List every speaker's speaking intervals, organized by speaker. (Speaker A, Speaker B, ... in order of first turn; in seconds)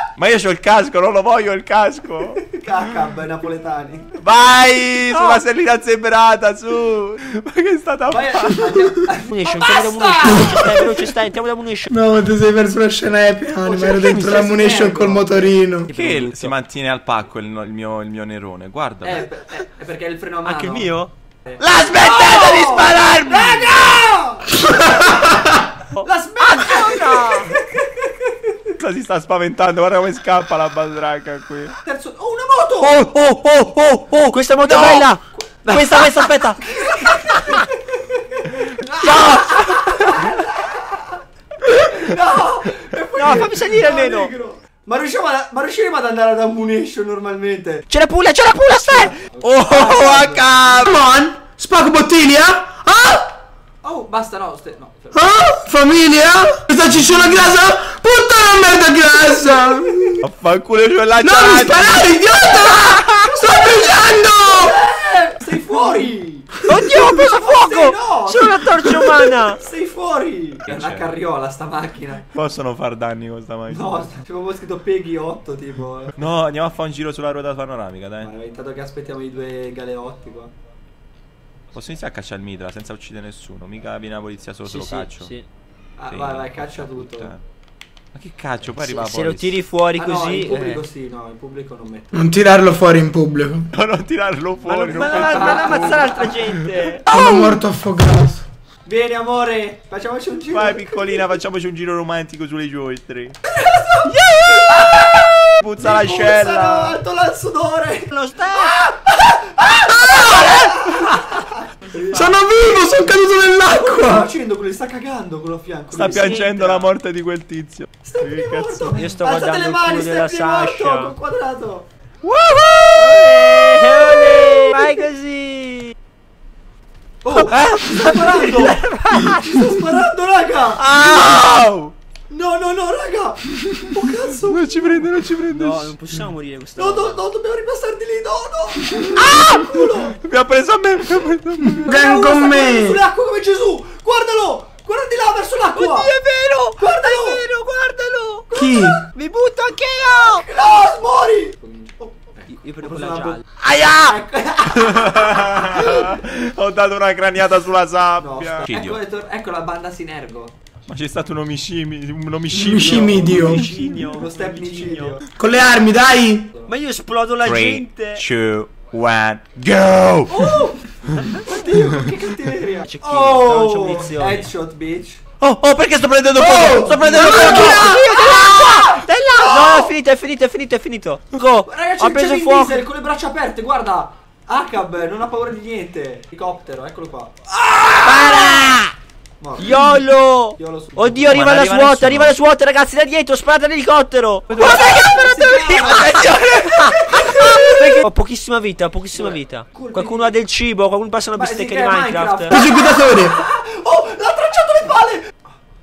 Speaker A: 0.2-2.4, 4.2-8.9, 15.9-19.2, 21.8-23.9, 28.8-31.8, 34.6-35.1, 35.7-36.6, 49.4-50.9, 60.2-62.1, 70.7-71.1, 72.3-74.1, 76.2-78.3, 81.7-85.3, 86.1-87.4, 88.1-89.6, 93.7-96.8, 100.5-103.4, 105.6-107.0, 110.0-111.1, 115.9-119.1, 123.0-124.3, 130.9-131.9, 134.3-135.9, 140.1-141.9, 154.7-159.0, 160.9-163.7, 167.4-171.2, 175.4-177.9, 191.3-192.4, 195.9-196.7
Speaker B: 2.4-4.2, 8.1-10.8, 13.6-15.6, 19.0-28.6, 31.8-33.1, 35.4-36.1, 36.6-47.9, 48.9-50.9, 53.8-55.2, 63.2-72.3, 73.7-76.2, 78.2-80.5, 86.0-87.3, 90.0-92.3, 94.9-96.4, 98.8-101.3, 103.5-112.2, 113.7-116.8, 118.0-121.9, 124.4-125.1, 127.2-130.8, 132.3-135.0, 136.8-140.2, 141.8-146.1, 146.8-147.4, 148.5-149.1, 150.1-153.4, 154.0-156.1, 158.2-160.5, 162.7-163.3, 163.9-165.2, 170.3-175.2, 177.1-179.9, 181.7-188.6, 189.4-189.8, 190.6-191.4, 194.5-198.0, 199.1-200.4, 201.3-205.4
Speaker C: 5.1-5.4, 9.3-11.9, 15.9-16.5, 20.4-23.4, 26.0-27.6, 32.8-36.4, 37.1-37.6, 39.0-40.3, 43.2-44.3, 47.9-50.2, 62.4-63.1, 66.7-69.6, 84.7-85.5, 88.8-90.8, 94.6-97.0, 104.2-104.6, 108.1-108.8, 116.1-116.9, 119.0-121.1, 122.2-125.9, 127.3-129.6, 130.8-131.6, 135.5-137.2, 139.2-139.9, 145.8-148.5, 149.1-150.4, 152.5-154.2, 163.1-165.2, 166.7-168.2, 172.8-174.5, 177.2-182.8, 188.1-188.9, 189.6-202.5
Speaker D: 11.9-15.9, 50.8-53.3, 55.1-60.2, 61.2-64.8, 92.1-93.7, 97.1-98.5, 112.1-114.3, 141.7-143.0, 148.6-149.0, 162.5-163.7, 165.3-166.5, 176.4-177.9, 202.5-203.4